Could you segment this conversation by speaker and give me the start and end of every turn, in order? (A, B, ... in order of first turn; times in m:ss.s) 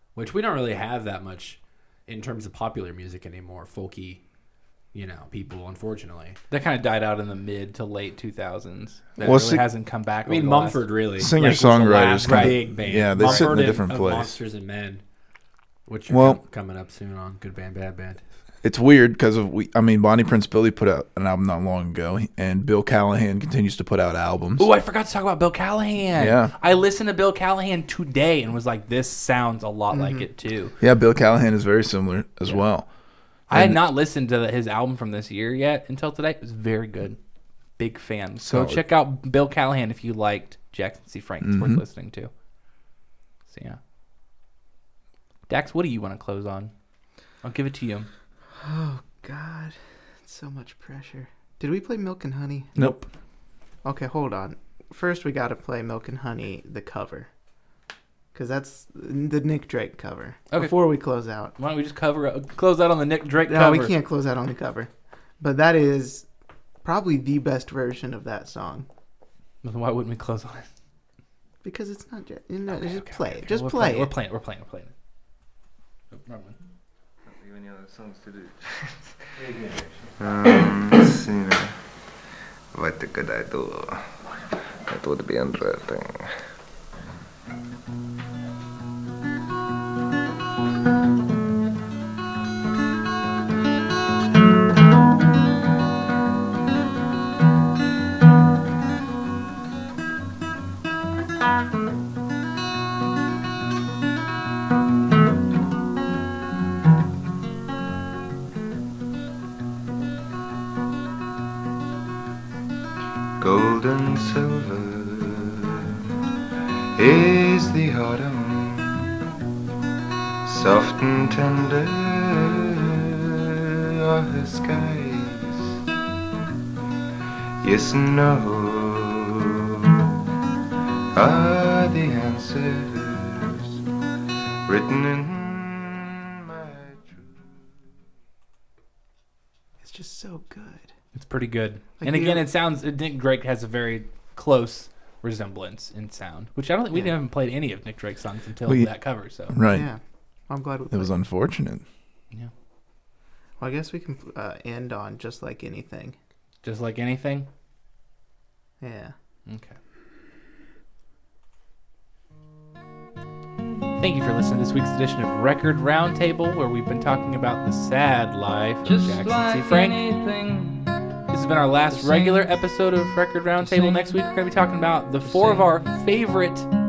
0:00.1-0:04.2 A
0:04.9-0:06.4 A
0:06.5-0:10.8 B
0:09.2-0:09.6 C
0:10.3-0:15.0 A
0:11.2-0:14.3 C
0:12.2-0:13.5 B
0:15.9-0:18.2 A
0:16.1-0:16.4 C
0:18.6-0:24.7 C
0:24.6-0:30.8 B
0:26.1-0:26.5 C
0:29.9-0:30.2 D
0:30.8-0:32.9 C
0:33.5-0:37.2 B
0:33.5-0:33.8 C
0:37.8-0:42.3 B
0:38.4-0:38.8 C
0:41.4-0:41.8 C
0:43.5-0:43.8 B
0:45.5-0:46.7 B
0:47.4-0:48.1 B
0:48.6-0:52.7 D
0:52.8-0:53.1 C
0:53.8-0:57.3 D
0:58.3-1:01.5 D
1:00.5-1:00.8 B
1:01.6-1:03.9 B
1:03.4-1:06.3 D
1:06.8-1:08.9 D
1:09.6-1:10.7 B
1:11.6-1:14.1 D
1:12.7-1:14.9 B
1:16.1-1:16.6 B
1:17.2-1:21.8 E
1:22.7-1:24.2 E
1:24.8-1:26.3 E
1:53.4-1:55.9 E
1:57.0-1:59.1 E
2:00.4-2:05.8 E
2:07.6-2:10.0 E
2:11.1-2:13.8 E
2:14.6-2:17.8 E
2:19.8-2:20.9 D
2:21.1-2:29.6 B
2:22.0-2:22.4 D
2:29.5-2:29.9 C
2:29.7-2:31.1 D
2:30.9-2:31.8 C
2:33.6-2:36.2 D
2:36.6-2:37.5 B
2:38.8-2:39.1 D
2:39.5-2:39.8 B
2:44.0-2:50.1 B
2:48.8-2:50.9 F
2:51.3-2:56.7 B
2:51.9-2:52.5 F
2:53.6-2:54.1 F
2:55.2-2:55.7 F